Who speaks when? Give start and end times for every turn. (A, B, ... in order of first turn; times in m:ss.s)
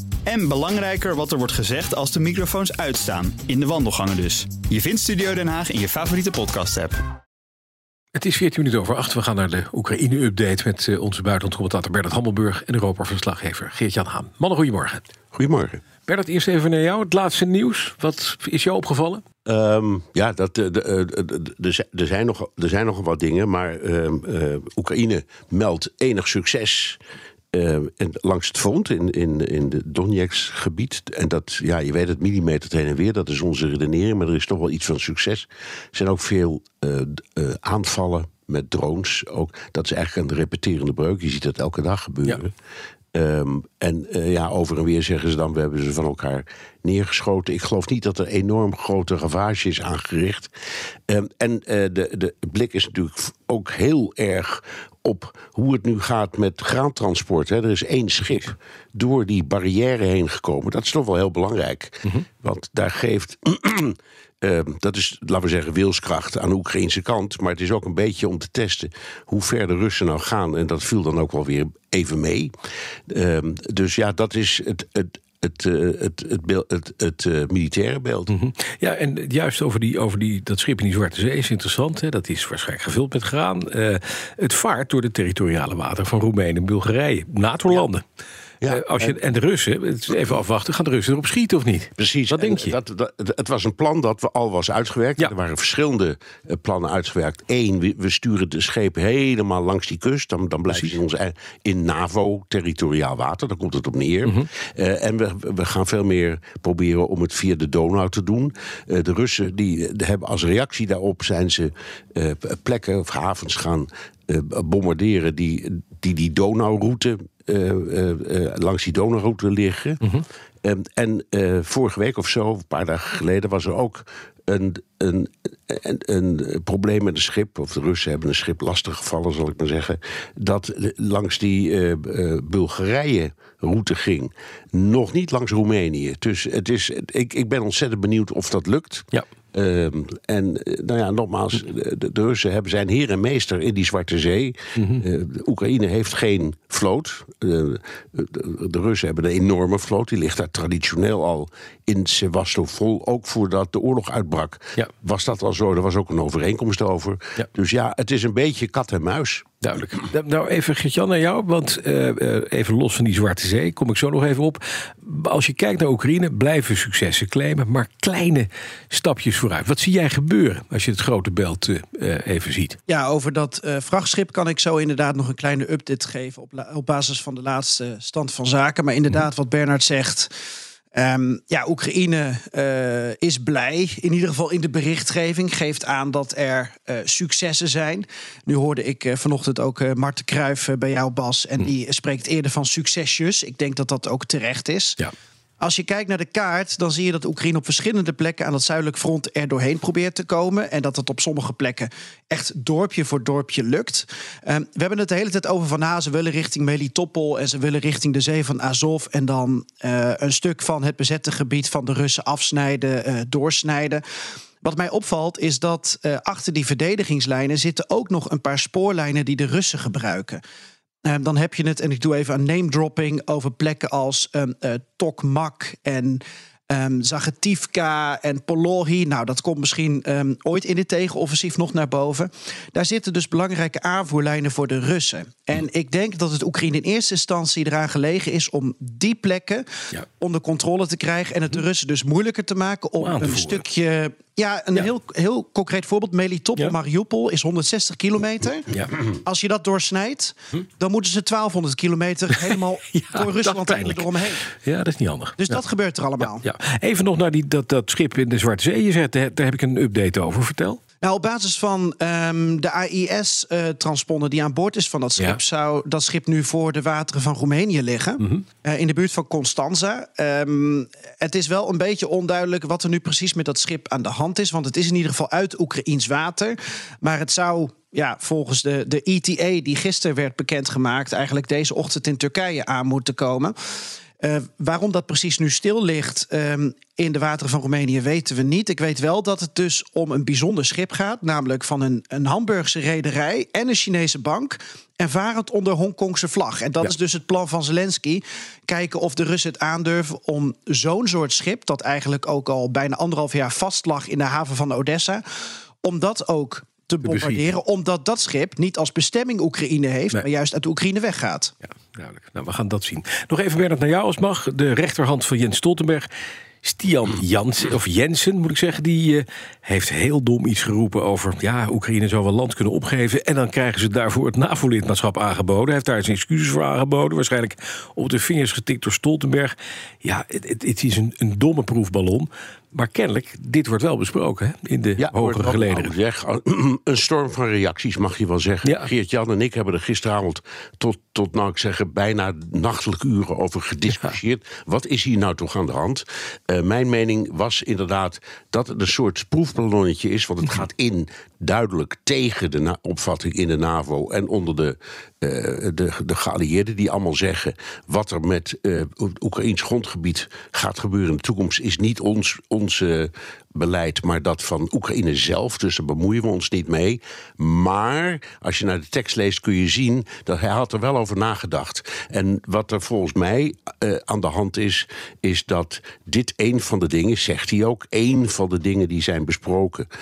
0:00.4-0:06.8 A
0:08.1-0:15.0 B
0:15.3-0:15.8 C
0:16.0-0:19.2 B
0:19.4-0:27.0 C
0:27.5-0:42.5 C
0:43.1-0:50.5 C
0:51.1-1:12.5 C
1:13.1-1:18.3 C
1:18.3-1:28.0 B
1:28.6-1:29.2 C
1:28.7-1:32.8 B
1:32.0-2:39.5 C
1:40.7-1:40.9 B
2:24.8-2:25.0 B
2:39.6-2:52.8 B
2:52.9-3:00.3 D
3:00.9-3:15.0 D
3:15.6-3:34.0 D
3:34.6-3:40.4 D
3:41.0-3:59.7 D
4:00.2-4:14.4 D
4:03.0-4:03.6 B
4:12.5-4:15.6 B
4:15.4-4:16.4 D
4:16.2-4:20.8 B
4:21.0-4:43.6 D
4:44.2-5:05.2 D
5:05.8-5:11.5 D
5:07.1-5:07.4 B
5:11.9-5:16.1 B
5:16.6-5:35.9 B
5:35.0-6:19.9 C